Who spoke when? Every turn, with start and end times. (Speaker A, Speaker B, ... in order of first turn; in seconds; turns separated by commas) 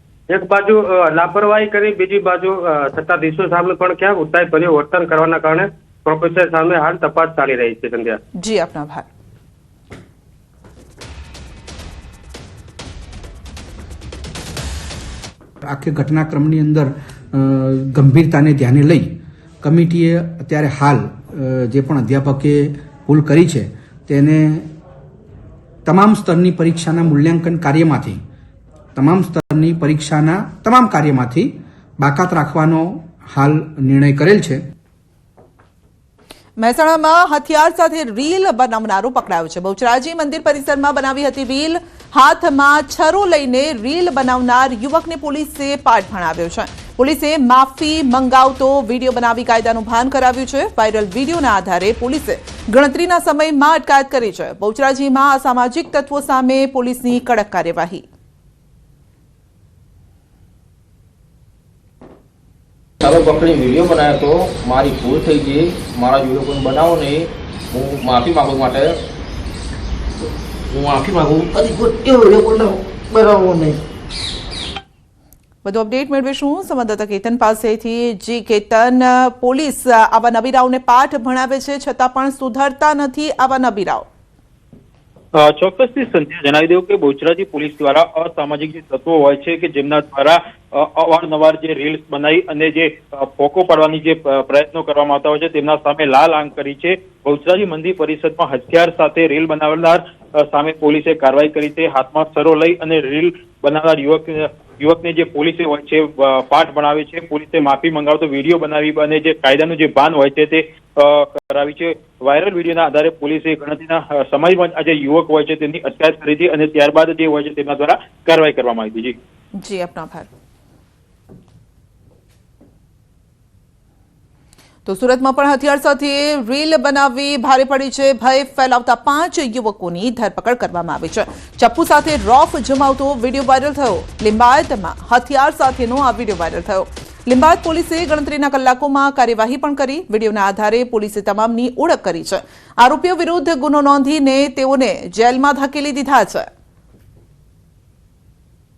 Speaker A: 0.3-8.2, Speaker B: 8.4-9.1, Speaker C: 15.6-24.7, Speaker C: 25.9-28.2, Speaker C: 28.9-34.6, Speaker B: 36.6-58.0, Speaker D: 63.0-69.0, Speaker D: 70.7-71.7, Speaker B: 75.7-84.1, Speaker E: 85.3-119.2, Speaker B: 119.6-120.3, Speaker B: 124.9-146.5